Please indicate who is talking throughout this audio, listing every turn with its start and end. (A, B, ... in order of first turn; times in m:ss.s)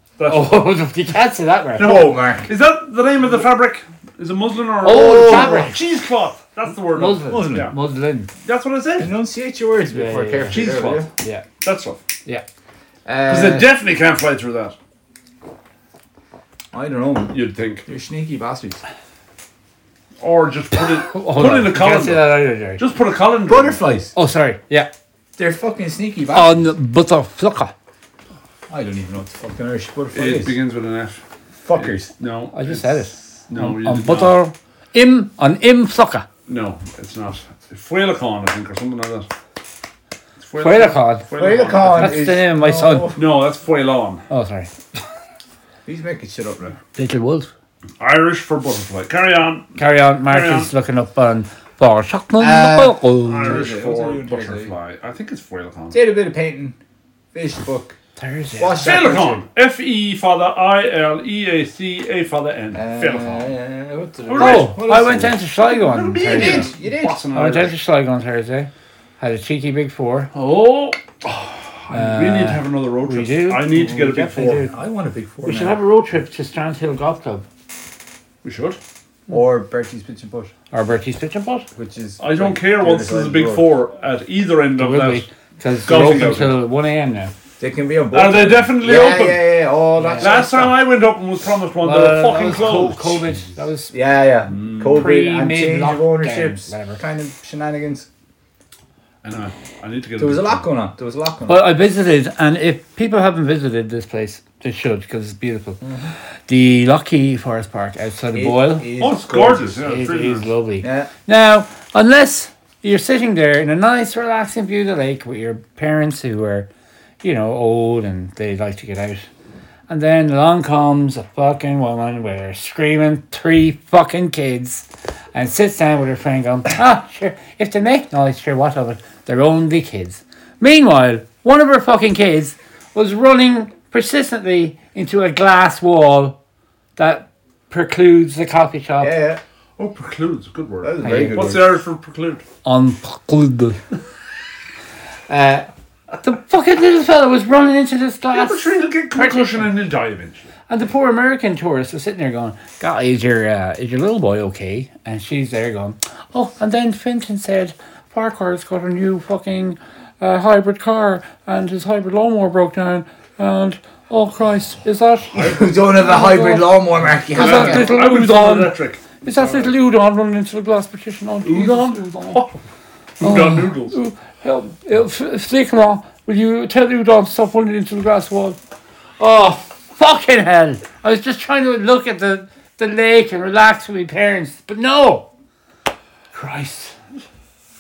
0:00.2-0:00.7 A
0:00.3-0:02.1 B
0:01.8-0:02.5 C
0:01.8-0:07.8 A
0:04.8-0:05.8 B
0:04.9-0:05.8 C
0:06.9-0:08.3 B
0:07.3-0:07.7 C
0:08.4-0:09.1 A
0:09.0-0:11.1 C
0:09.9-0:10.6 B
0:10.5-0:11.1 A
0:11.2-0:11.5 B
0:11.6-0:12.0 A
0:13.1-0:13.7 C
0:13.3-0:14.8 A
0:16.7-0:18.8 C
0:17.3-0:17.9 A
0:20.2-0:23.8 A
0:21.0-0:22.8 B
0:23.5-0:24.1 C
0:24.2-0:24.9 B
0:25.4-0:26.6 C
0:26.3-0:27.7 B
0:28.7-0:30.6 C
0:30.1-0:31.2 A
0:31.6-0:32.1 C
0:31.8-0:34.4 A
0:32.5-0:36.3 B
0:36.5-0:39.3 A
0:40.4-0:42.2 A
0:40.6-0:41.3 B
0:41.4-0:43.3 C
0:41.8-0:43.2 B
0:43.2-0:44.2 A
0:44.3-0:44.7 B
0:45.9-0:46.8 C
0:47.0-0:47.5 B
0:48.0-0:49.8 A
0:49.8-0:53.7 B
0:50.3-0:50.7 A
0:52.4-0:54.7 C
0:53.2-0:56.0 A
0:55.9-0:56.8 C
0:57.3-0:58.0 C
0:58.2-0:59.0 B
0:58.6-0:59.4 C
0:58.8-1:03.5 A
1:02.7-1:05.4 C
1:04.3-1:04.8 A
1:04.4-1:06.7 B
1:05.6-1:07.8 A
1:06.2-1:07.3 C
1:07.3-1:10.3 B
1:10.3-1:14.7 A
1:11.9-1:14.7 B
1:14.6-1:15.8 C
1:15.4-1:17.4 B
1:18.4-1:18.8 A
1:19.3-1:20.5 C
1:20.7-1:21.7 B
1:21.7-1:23.7 C
1:22.2-1:25.3 A
1:24.8-1:27.3 B
1:25.8-1:26.6 A
1:27.6-1:30.8 C
1:28.1-1:29.6 A
1:30.0-1:30.4 B
1:30.2-1:33.2 A
1:31.8-1:34.0 B
1:33.9-1:38.1 C
1:34.5-1:35.1 A
1:34.9-1:37.0 B
1:39.2-1:40.7 A
1:40.2-1:41.6 C
1:41.5-1:45.8 B
1:45.8-1:46.1 C
1:46.5-1:48.9 B
1:48.3-1:49.8 C
1:49.0-1:50.6 A
1:49.8-1:56.7 B
1:50.8-1:51.1 C
1:57.2-1:59.3 B
1:59.9-2:16.4 B
2:17.0-2:19.2 B
2:19.0-2:19.4 C
2:19.8-2:22.4 A
2:20.8-2:21.7 C
2:21.0-2:21.5 B
2:22.6-2:23.8 B
2:25.3-2:25.7 B
2:26.2-2:29.7 B
2:28.3-2:30.5 A
2:30.7-2:52.4 B
2:45.3-2:48.0 C
2:45.4-2:45.8 A
2:47.3-2:49.7 A
2:51.4-2:52.6 A
2:53.2-2:54.0 A
2:53.2-2:58.6 B
2:59.2-3:05.3 B
3:06.3-3:07.0 B